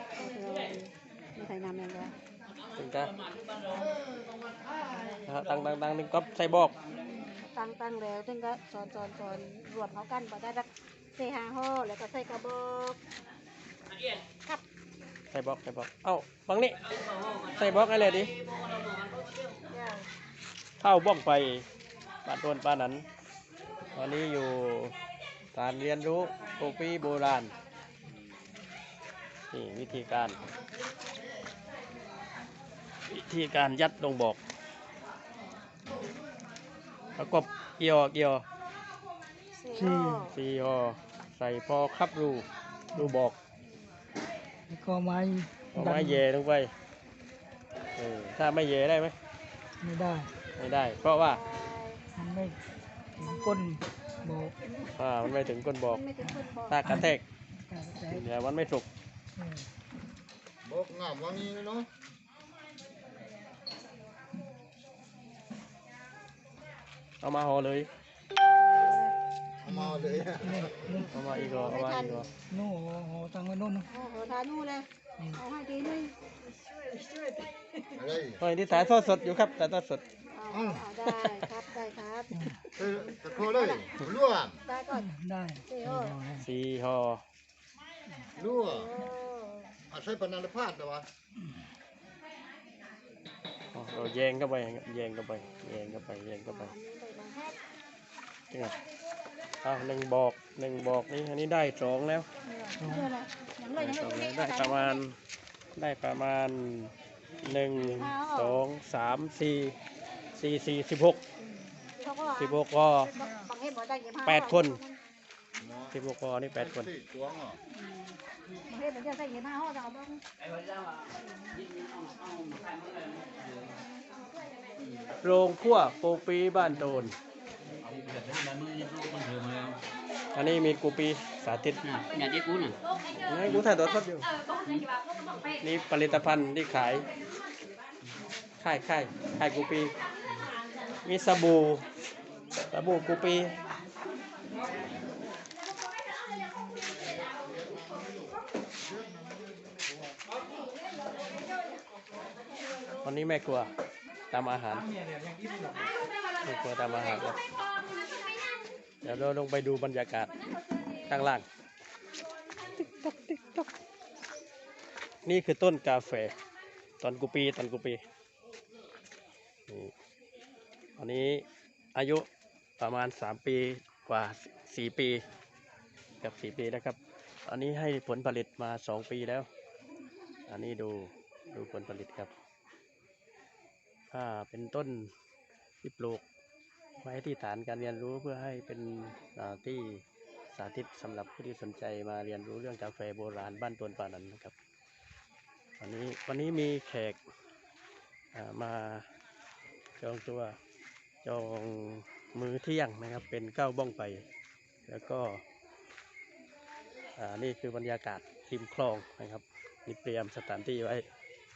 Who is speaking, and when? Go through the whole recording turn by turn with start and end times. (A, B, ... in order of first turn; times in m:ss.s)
0:00.2-0:02.1 A
0:02.8-0:03.1 B
0:05.2-0:06.8 B
0:06.9-0:13.0 A
0:15.3-0:16.8 B
0:17.5-0:18.3 B
0:19.7-0:20.1 A
0:20.8-0:21.6 B
0:22.2-0:23.0 B
0:23.9-0:25.0 B
0:25.5-0:27.5 B
0:29.5-0:30.4 B
0:33.1-0:34.4 B
0:37.2-0:38.4 B
0:39.5-0:40.4 A
0:39.7-0:40.2 C
0:40.3-0:42.5 B
0:43.0-0:43.4 B
0:44.7-0:46.2 C
0:45.7-0:46.7 B
0:48.0-0:49.1 B
0:49.8-0:50.3 C
0:50.6-0:51.4 B
0:51.1-0:52.0 A
0:52.2-0:52.6 C
0:53.2-0:54.5 C
0:53.2-0:53.6 A
0:55.0-0:56.0 B
0:55.8-0:56.8 A
0:56.7-0:57.2 B
0:56.8-0:57.1 C
0:57.6-0:58.2 C
0:58.2-0:58.9 B
0:59.4-0:59.7 C
1:00.6-1:01.9 D
1:07.2-1:07.9 B
1:08.6-1:09.1 A
1:09.6-1:11.0 D
1:09.6-1:11.1 C
1:11.1-1:12.3 B
1:11.5-1:12.3 A
1:12.4-1:13.8 C
1:13.9-1:16.1 A
1:16.6-1:17.5 C
1:18.0-1:18.4 D
1:18.4-1:20.0 B
1:18.7-1:19.5 A
1:20.3-1:23.9 A
1:20.5-1:20.8 D
1:21.2-1:21.5 B
1:22.3-1:22.6 C
1:22.8-1:24.6 D
1:24.6-1:25.1 A
1:24.9-1:26.5 C
1:25.7-1:26.2 A
1:26.4-1:27.2 B
1:28.3-1:28.9 D
1:28.6-1:29.7 A
1:29.9-1:31.0 D
1:33.7-1:34.1 A
1:33.7-1:36.7 B
1:35.5-1:35.8 A
1:36.5-1:37.6 A
1:38.5-1:38.8 B
1:39.6-1:42.3 B
1:42.4-1:45.0 A
1:42.8-1:43.1 C
1:43.8-1:45.1 B
1:45.8-1:49.8 B
1:47.8-1:48.6 A
1:50.4-1:51.2 B
1:52.0-1:55.0 A
1:52.4-1:53.1 B
1:54.2-1:54.8 B
1:55.6-1:55.9 D
1:55.9-1:56.9 B
1:56.6-1:57.6 D
1:57.7-2:00.2 A
2:00.5-2:00.9 E
2:01.6-2:03.7 E
2:05.2-2:07.2 B
2:07.8-2:09.8 E
2:10.3-2:11.8 B
2:11.9-2:12.8 E
2:13.2-2:14.3 B
2:15.6-2:17.1 B
2:18.6-2:19.9 B
2:21.0-2:21.8 B
2:22.7-2:23.6 B
2:27.3-2:30.2 D
2:33.0-2:33.7 B
2:34.3-2:34.9 B
2:36.4-2:37.4 B
2:39.0-2:40.3 B
2:41.1-2:41.4 B
2:42.8-2:43.7 B
2:45.2-2:46.3 B
2:47.0-2:48.0 B
2:49.7-2:49.9 B
2:51.0-2:51.4 B
2:52.0-2:52.2 B
2:52.8-2:55.2 B
2:56.2-2:59.5 B
3:00.5-3:02.3 B
3:04.1-3:05.1 B
3:05.8-3:06.2 B
3:07.0-3:10.0 B
3:10.5-3:14.5 B
3:15.8-3:17.2 B
3:18.3-3:19.1 B
3:20.0-3:20.6 B
3:21.2-3:24.2 B
3:24.9-3:25.4 B
3:27.2-3:31.0 B